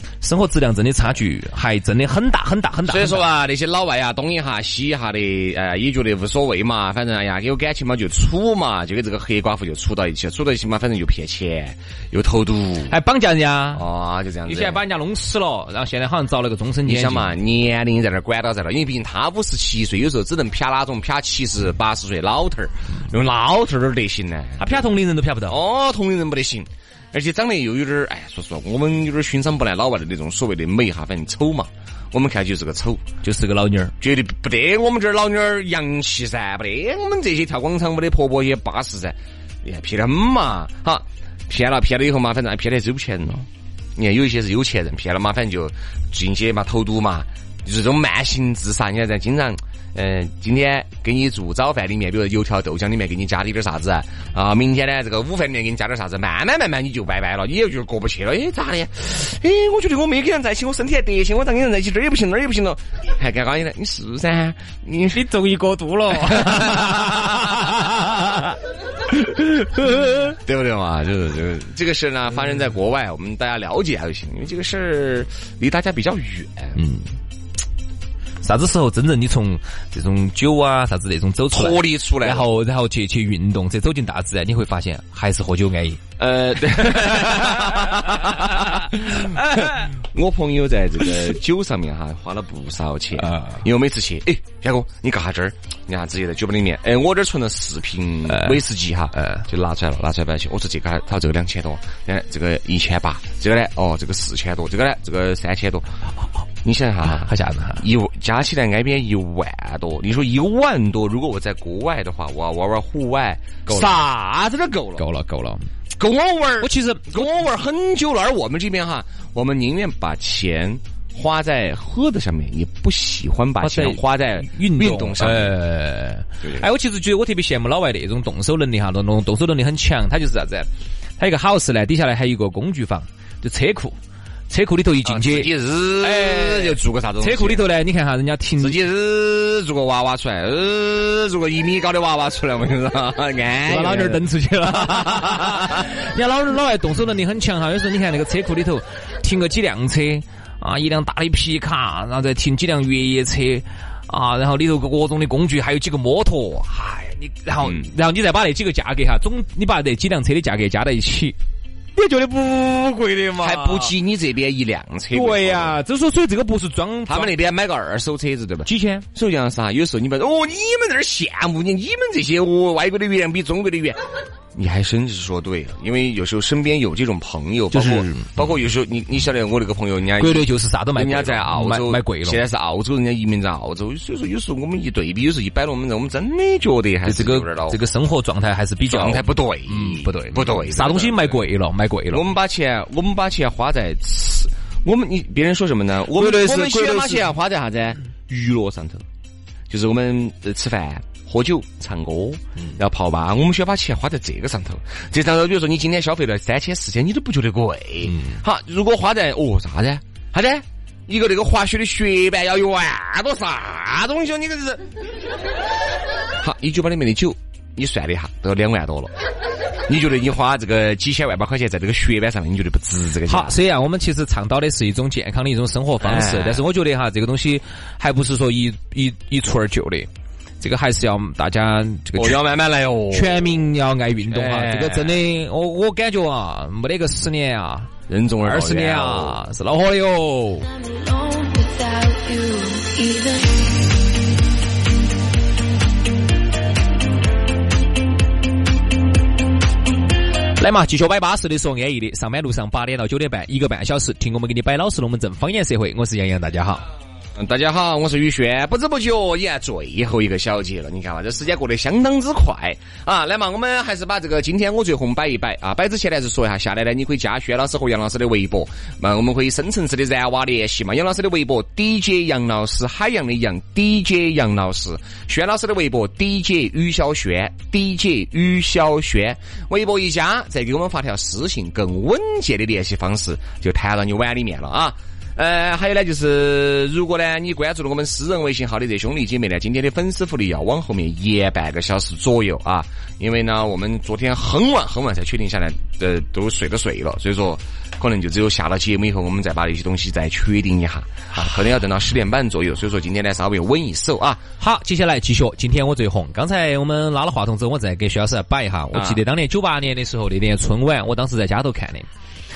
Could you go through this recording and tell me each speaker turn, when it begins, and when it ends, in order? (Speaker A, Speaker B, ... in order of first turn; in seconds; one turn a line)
Speaker A: 0.2-3.3
Speaker B: 2.9-12.9
Speaker A: 12.9-13.8
Speaker B: 13.7-14.8
Speaker A: 14.4-17.4
Speaker B: 16.9-24.8
Speaker A: 24.6-25.6
Speaker B: 25.5-33.0
Speaker A: 33.2-33.9
Speaker B: 34.0-65.2
Speaker A: 65.1-68.5
Speaker B: 66.2-67.6
Speaker A: 69.1-70.4
Speaker B: 70.3-76.8
Speaker A: 76.8-77.1
Speaker A: 78.4-86.0
Speaker B: 81.5-82.5
Speaker B: 86.2-105.9
Speaker A: 86.8-89.9
Speaker A: 93.2-93.6
Speaker A: 98.3-98.6
Speaker A: 99.1-99.5
Speaker B: 106.6-115.0
Speaker A: 107.1-107.8
Speaker A: 113.7-114.0
Speaker A: 115.0-115.7
Speaker B: 115.9-125.6
Speaker A: 116.6-117.1
Speaker A: 123.6-134.0
Speaker A: 134.5-138.8
Speaker B: 135.1-137.6
Speaker B: 138.6-144.2
Speaker A: 143.7-161.4
Speaker B: 144.8-145.9
Speaker B: 157.6-157.9
Speaker A: 161.9-163.9
Speaker B: 163.4-165.8
Speaker A: 165.1-167.3
Speaker B: 167.1-174.0
Speaker A: 168.6-169.1
Speaker B: 174.5-187.8
Speaker A: 177.7-178.4
Speaker A: 180.2-182.4
Speaker A: 187.1-192.3
Speaker B: 188.9-191.4
Speaker B: 192.1-199.1
Speaker A: 196.1-197.3
Speaker B: 199.7-214.9
Speaker A: 208.1-208.4
Speaker B: 216.4-219.1
Speaker B: 219.9-223.6
Speaker A: 223.3-230.1
Speaker B: 226.0-226.6
Speaker A: 230.6-232.4
Speaker B: 232.1-233.6
Speaker A: 233.1-240.7
Speaker B: 234.3-235.2
Speaker B: 238.1-239.4
Speaker C: 240.6-244.1
Speaker A: 250.6-256.8
Speaker B: 257.4-304.4
Speaker A: 304.6-312.1
Speaker B: 308.9-309.2